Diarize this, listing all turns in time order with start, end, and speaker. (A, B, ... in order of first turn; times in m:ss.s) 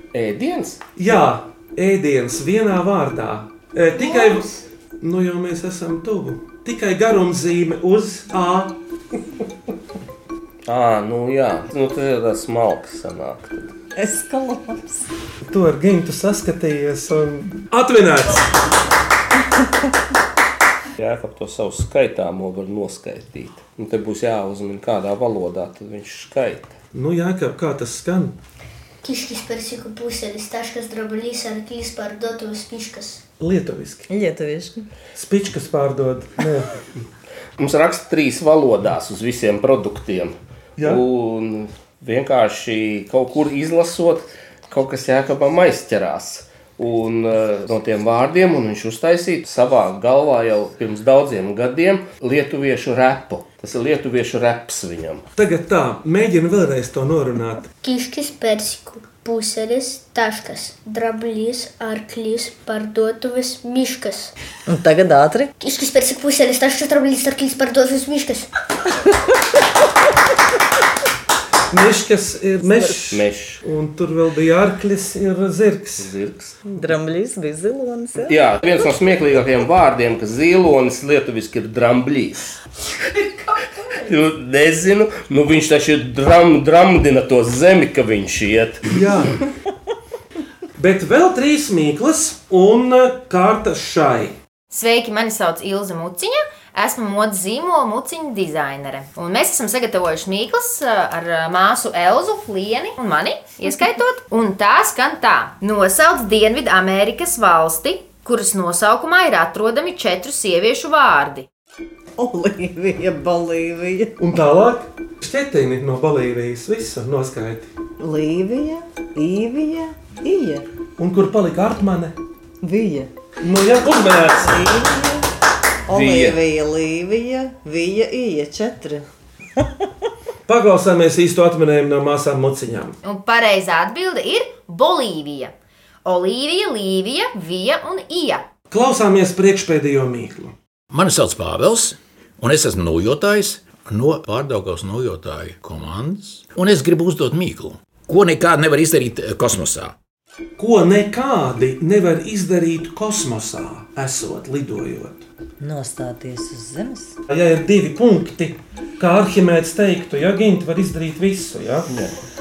0:00.1-0:00.8 A
0:01.0-0:04.5 B
0:04.0-0:04.6 C
0:05.0-0:08.8 B
0:10.7-0:13.7 A
0:14.0-0:15.1 D
0:15.5-0:18.5 B
0:21.0-0:26.7 A
0:26.9-0:28.4 B
0:29.0-0:33.2 C
0:33.4-0:34.1 B
0:34.1-0:34.9 D
0:35.1-0:36.7 B
0:37.6-0:55.2 A
0:55.4-0:57.7 B
0:57.8-1:04.3 C
1:04.7-1:05.5 D
1:05.6-1:08.5 C
1:11.7-1:16.1 B
1:13.1-1:13.6 A
1:16.0-1:16.6 A
1:16.7-1:18.4 D
1:18.3-1:22.6 A
1:24.0-1:28.9 A
1:28.9-1:29.4 B
1:30.8-1:34.4 B
1:34.7-1:51.5 E
1:52.2-1:54.2 D
1:54.2-1:57.7 B
1:58.0-2:00.7 D
2:01.0-2:02.2 B
2:02.6-2:03.1 D
2:03.4-2:04.6 B
2:04.4-2:05.3 D
2:05.9-2:09.0 D
2:05.9-2:06.4 A
2:09.6-2:09.9 D
2:10.5-2:13.0 B
2:13.0-2:15.5 E
2:16.0-2:18.4 E
2:18.7-2:20.5 B
2:20.9-2:29.9 F
2:30.6-2:35.3 B
2:35.6-2:37.2 D
2:37.3-2:41.9 B